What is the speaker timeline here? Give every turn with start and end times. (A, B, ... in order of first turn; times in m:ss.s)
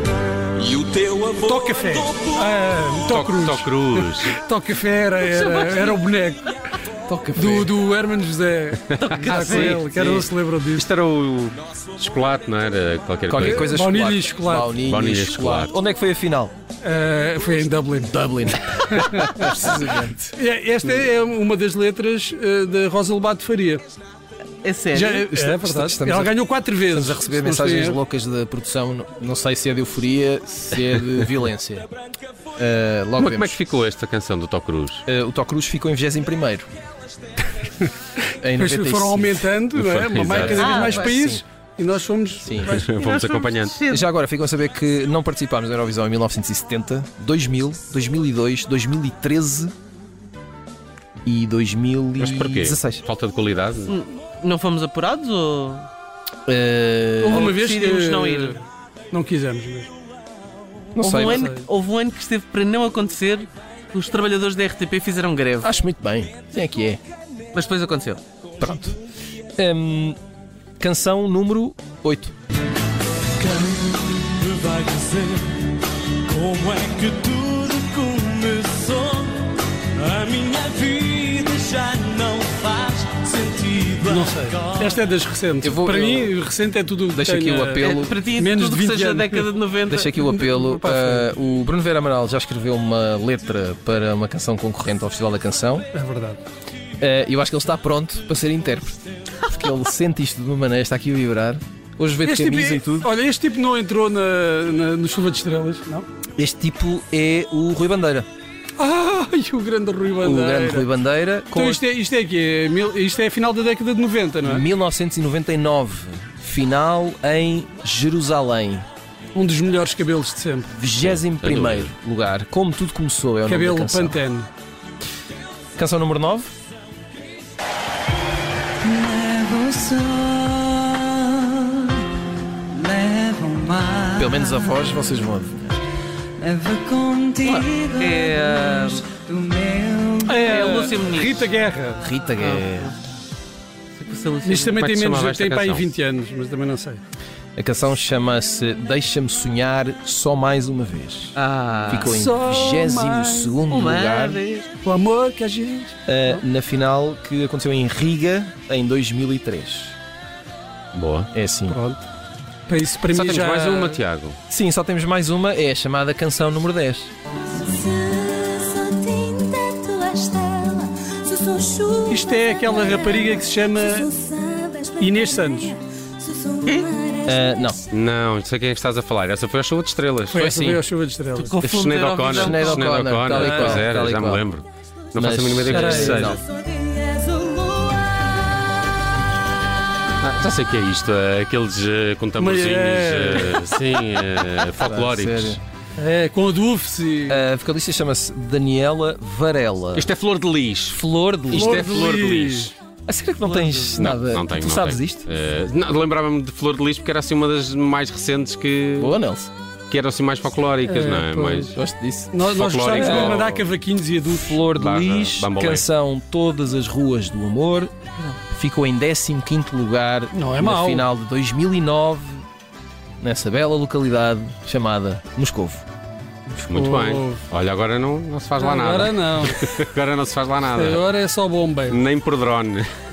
0:00.7-0:01.2 A
0:01.4-0:06.5 B
0:03.1-0:04.4 C
0:05.4-0:05.9 D
0:07.1-0:07.7 A
0:07.3-0:10.9 B
0:09.0-0:09.8 D
0:09.1-0:13.8 C
0:13.3-0:16.5 A
0:13.4-0:14.8 B
0:14.8-0:15.7 C
0:16.8-0:18.2 B
0:18.0-0:20.3 A
0:18.8-0:19.3 B
0:20.3-0:23.8 B
0:24.6-0:25.3 D
0:24.9-0:28.0 B
0:25.3-0:31.9 A
0:32.6-0:33.6 A
0:33.2-0:35.0 C
0:35.1-0:36.7 A
0:38.4-0:39.5 A
0:38.5-0:43.0 B
0:39.8-0:40.7 C
0:40.3-0:41.4 A
0:40.4-0:41.2 D
0:42.4-0:42.8 A
0:42.6-0:43.8 C
0:43.0-0:44.1 D
0:43.9-0:49.7 A
0:51.2-0:53.0 A
0:52.2-0:53.9 C
0:53.9-0:55.9 D
0:56.5-0:57.6 A
0:57.2-0:59.9 B
0:57.3-0:58.6 D
1:00.9-1:01.5 A
1:01.0-1:05.7 D
1:01.1-1:01.6 B
1:05.6-1:07.0 A
1:07.5-1:08.2 D
1:08.6-1:09.0 A
1:09.6-1:10.2 A
1:10.8-1:12.3 A
1:14.7-1:15.0 E
1:16.4-1:18.9 F
1:16.4-1:19.0 E
1:20.1-1:23.9 E
1:20.2-1:23.9 F
1:24.0-1:29.5 B
1:25.6-1:26.4 A
1:27.1-1:28.2 A
1:27.8-1:30.1 D
1:29.9-1:35.9 A
1:30.3-1:31.3 B
1:35.9-1:36.4 B
1:37.0-1:43.1 A
1:42.2-1:46.1 B
1:46.4-1:48.3 A
1:48.8-1:50.9 B
1:50.2-1:51.8 A
1:51.5-1:54.7 B
1:54.4-1:58.8 A
1:59.3-2:00.7 B
2:00.7-2:04.2 A
2:01.0-2:01.9 C
2:03.4-2:04.5 B
2:05.8-2:06.5 A
2:08.8-2:12.0 G
2:12.8-2:14.2 G
2:14.1-2:15.8 A
2:16.4-2:20.4 G
2:17.4-2:19.2 D
2:20.2-2:22.0 B
2:20.3-2:21.4 D
2:22.0-2:22.9 A
2:22.4-2:22.9 D
2:24.0-2:24.8 D
2:24.4-2:27.0 B
2:24.7-2:25.9 C
2:27.6-2:34.4 A
2:31.4-2:32.2 D
2:32.0-2:33.6 B
2:33.7-2:34.7 D
2:34.8-2:36.4 B
2:36.1-2:39.9 A
2:40.9-2:41.3 C
2:41.3-2:41.8 A
2:41.7-2:42.0 B
2:42.7-2:44.0 B
2:43.1-2:44.4 C
2:44.5-2:47.1 A
2:48.0-2:51.9 F
2:52.0-2:54.2 B
2:54.5-2:54.8 F
2:54.9-2:55.8 B
2:56.6-2:57.0 D
2:57.2-2:57.8 A
2:57.9-3:00.5 C
3:00.3-3:01.6 B
3:00.3-3:00.8 A
3:01.4-3:03.8 D
3:01.6-3:06.4 C
3:02.3-3:04.4 A
3:05.2-3:06.4 A
3:05.7-3:06.4 B
3:10.2-3:15.6 C
3:12.4-3:13.6 B
3:14.8-3:15.6 A
3:16.0-3:17.4 B
3:17.3-3:20.1 A
3:19.9-3:22.7 C
3:20.9-3:22.0 A
3:21.5-3:22.7 B
3:23.1-3:25.3 A
3:23.4-3:24.1 D
3:24.0-3:29.2 C
3:29.0-3:29.5 A
3:29.9-3:31.8 C
3:30.8-3:31.8 B
3:31.7-3:32.3 A
3:32.3-3:34.6 B
3:32.4-3:33.6 C
3:32.9-3:33.5 A
3:34.2-3:37.9 A
3:34.8-3:35.8 C
3:38.5-3:42.4 A
3:40.3-3:41.1 B
3:43.2-3:45.8 A
3:46.5-3:47.4 B
3:46.7-3:51.1 C
3:48.6-3:49.7 B
3:50.7-3:52.0 B
3:51.9-3:52.9 C